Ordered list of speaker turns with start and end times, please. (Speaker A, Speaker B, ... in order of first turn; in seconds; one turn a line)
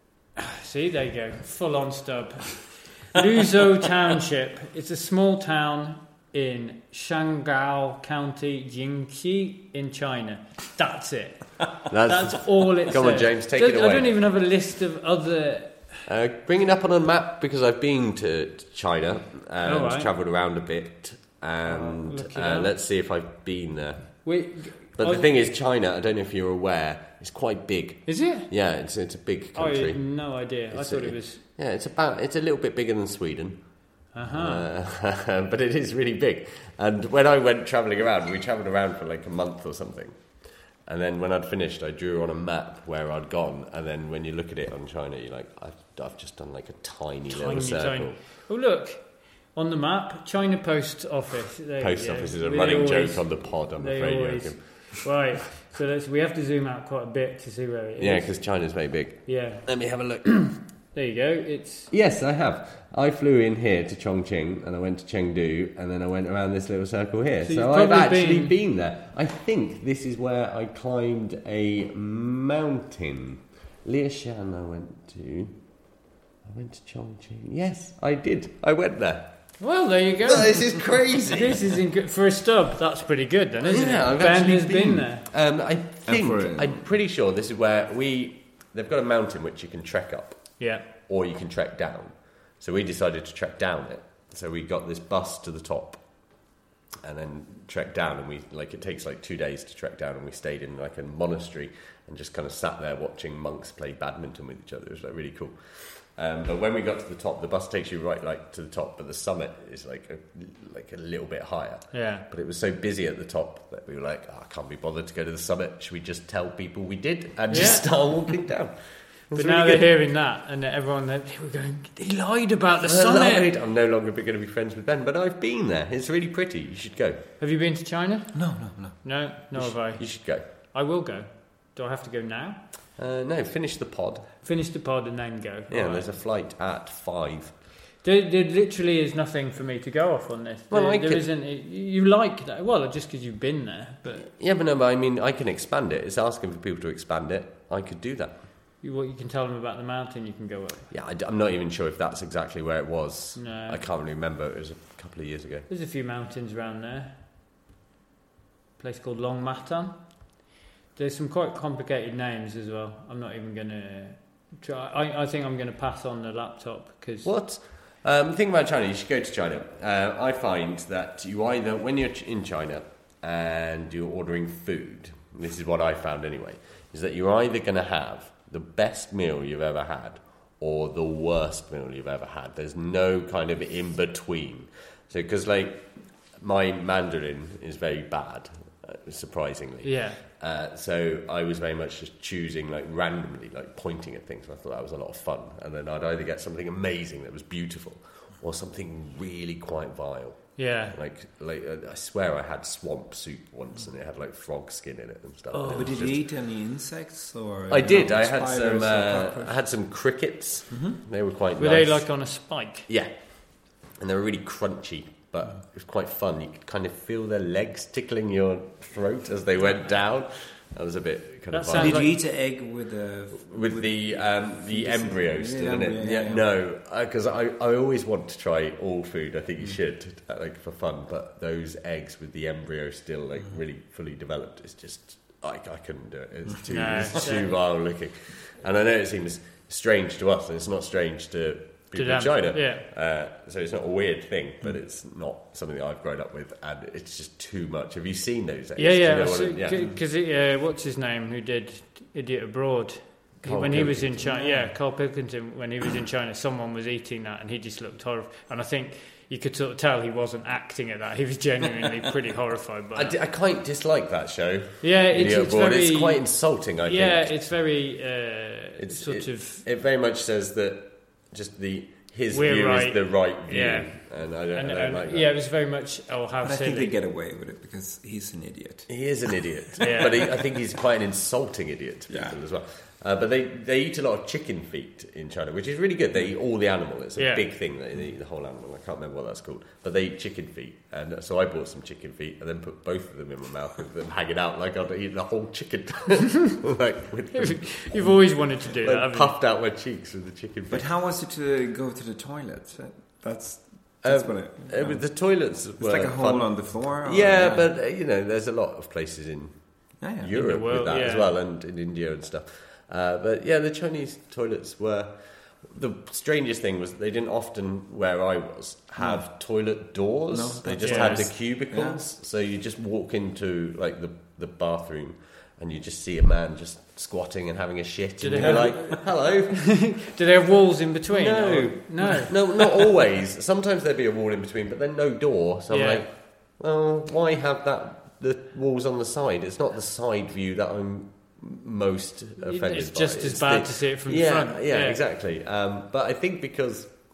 Speaker A: 0.3-15.9
Speaker B: 11.9-14.2
Speaker B: 16.1-48.2
Speaker A: 19.6-20.1
Speaker A: 21.6-22.7
Speaker A: 24.2-25.3
Speaker A: 28.1-28.5
Speaker A: 29.6-31.4
Speaker A: 34.1-34.7
Speaker A: 47.3-58.3
Speaker B: 51.8-55.0
Speaker B: 58.0-60.3
Speaker A: 59.2-59.6
Speaker A: 60.2-61.9
Speaker B: 61.9-75.6
Speaker A: 67.4-68.5
Speaker B: 76.4-79.4
Speaker A: 79.6-80.7
Speaker B: 80.2-81.8
Speaker A: 81.3-85.2
Speaker B: 83.6-96.0
Speaker C: 86.0-86.9
Speaker A: 90.6-90.8
Speaker B: 97.0-119.9
Speaker A: 111.9-112.2
Speaker A: 117.5-117.8
Speaker A: 119.3-123.4
Speaker B: 122.8-127.3
Speaker A: 127.4-132.6
Speaker C: 128.3-129.0
Speaker B: 129.6-130.4
Speaker B: 133.0-134.3
Speaker A: 134.4-136.1
Speaker B: 135.7-137.5
Speaker A: 138.0-144.3
Speaker B: 140.7-141.3
Speaker B: 144.3-148.3
Speaker A: 148.8-150.9
Speaker B: 150.9-155.7
Speaker A: 153.3-153.8
Speaker A: 155.7-157.2
Speaker A: 158.8-160.0
Speaker A: 160.9-167.3
Speaker B: 167.2-206.2
Speaker A: 189.8-190.2
Speaker A: 200.6-200.9
Speaker A: 205.5-205.9
Speaker C: 205.7-209.6
Speaker B: 207.7-212.1
Speaker C: 210.7-211.0
Speaker A: 211.6-212.9
Speaker B: 212.9-222.1
Speaker A: 221.5-222.2
Speaker C: 221.7-226.4
Speaker B: 223.4-249.8
Speaker A: 236.7-237.6
Speaker A: 241.9-242.8
Speaker A: 248.8-263.2
Speaker B: 253.4-254.4
Speaker C: 254.3-254.7
Speaker B: 262.9-267.3
Speaker A: 264.8-266.3
Speaker A: 266.8-269.6
Speaker B: 268.8-275.3
Speaker A: 272.3-273.9
Speaker A: 274.5-276.9
Speaker C: 276.4-279.3
Speaker B: 278.9-300.9
Speaker A: 279.8-280.2
Speaker C: 279.9-280.2
Speaker C: 282.1-282.4
Speaker A: 287.2-287.4
Speaker A: 297.3-299.4
Speaker C: 300.7-305.0
Speaker B: 304.0-309.6
Speaker C: 305.8-307.7
Speaker C: 310.0-310.3
Speaker B: 310.2-329.7
Speaker A: 310.3-311.3
Speaker C: 319.0-319.2
Speaker C: 320.3-322.0
Speaker A: 320.8-321.3
Speaker A: 328.2-329.1
Speaker C: 328.3-329.0
Speaker A: 329.6-332.3
Speaker B: 331.1-346.9
Speaker A: 335.7-336.1
Speaker A: 342.4-345.0